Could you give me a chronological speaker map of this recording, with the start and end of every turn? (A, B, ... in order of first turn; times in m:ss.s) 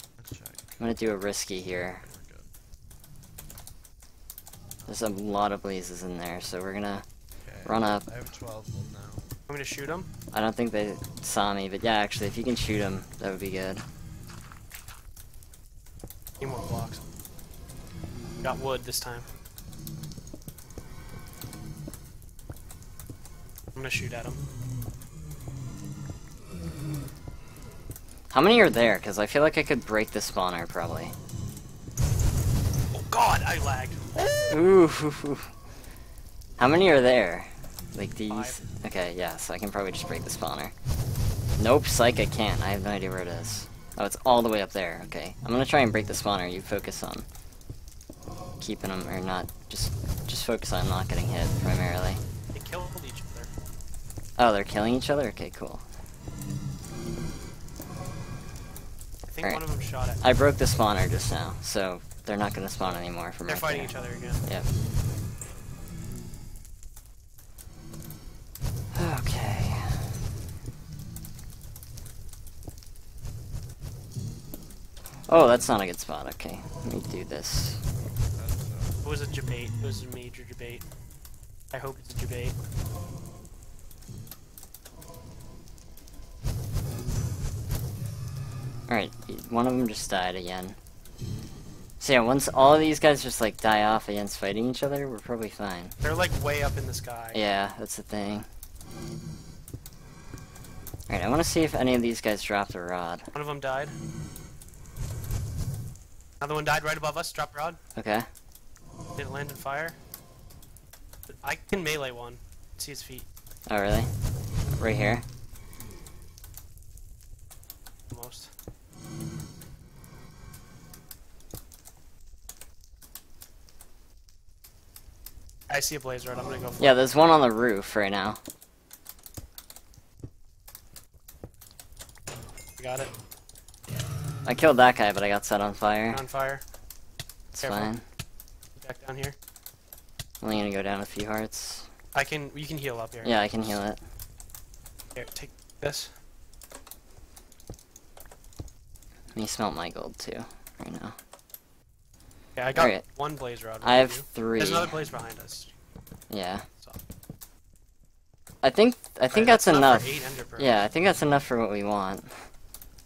0:00.2-0:00.8 A
0:00.8-0:02.1 B
0:01.7-0:02.5 A
0:04.8-0:05.4 A
0:04.9-0:07.1 B
0:07.4-0:09.3 A
0:07.6-0:08.1 B
0:09.5-0:10.1 C
0:10.3-0:13.8 B
0:16.4-0:17.0 C
0:18.4-0:19.3 C
0:23.8-0:24.4 C
0:28.3-0:31.1 B
0:32.9-0:34.0 C
0:34.2-0:35.5 B
0:36.6-0:40.7 B
0:38.3-0:38.7 C
0:41.6-0:47.3 B
0:48.6-0:52.2 B
0:52.5-0:53.5 C
0:54.4-0:55.8 B
0:59.3-1:00.2 C
1:00.2-1:04.7 B
1:03.4-1:04.5 C
1:08.9-1:10.1 B
1:15.3-1:17.8 B
1:18.0-1:19.0 A
1:19.0-1:20.9 C
1:21.7-1:22.6 C
1:28.9-1:30.8 B
1:32.0-1:36.0 B
1:36.0-1:37.4 C
1:37.3-1:38.5 B
1:41.1-1:43.3 B
1:43.3-1:44.0 C
1:46.4-1:47.8 C
1:48.0-1:48.3 B
1:49.2-1:50.0 C
1:51.3-1:53.3 C
1:53.7-1:54.1 B
1:54.7-1:55.2 B
1:58.1-1:58.5 C
2:05.7-2:07.0 C
2:06.8-2:08.4 B
2:12.8-2:13.1 C
2:14.4-2:16.2 B
2:16.1-2:16.6 C
2:17.5-2:18.0 B
2:17.6-2:18.0 C
2:18.7-2:19.4 C
2:20.4-2:21.9 B
2:22.1-2:23.8 C
2:23.2-2:24.0 B
2:25.2-2:26.1 C
2:29.4-2:31.2 B
2:32.6-2:35.7 C
2:32.7-2:33.1 B
2:33.8-2:35.0 B
2:36.3-2:36.7 B
2:38.6-2:42.5 B
2:39.3-2:40.8 C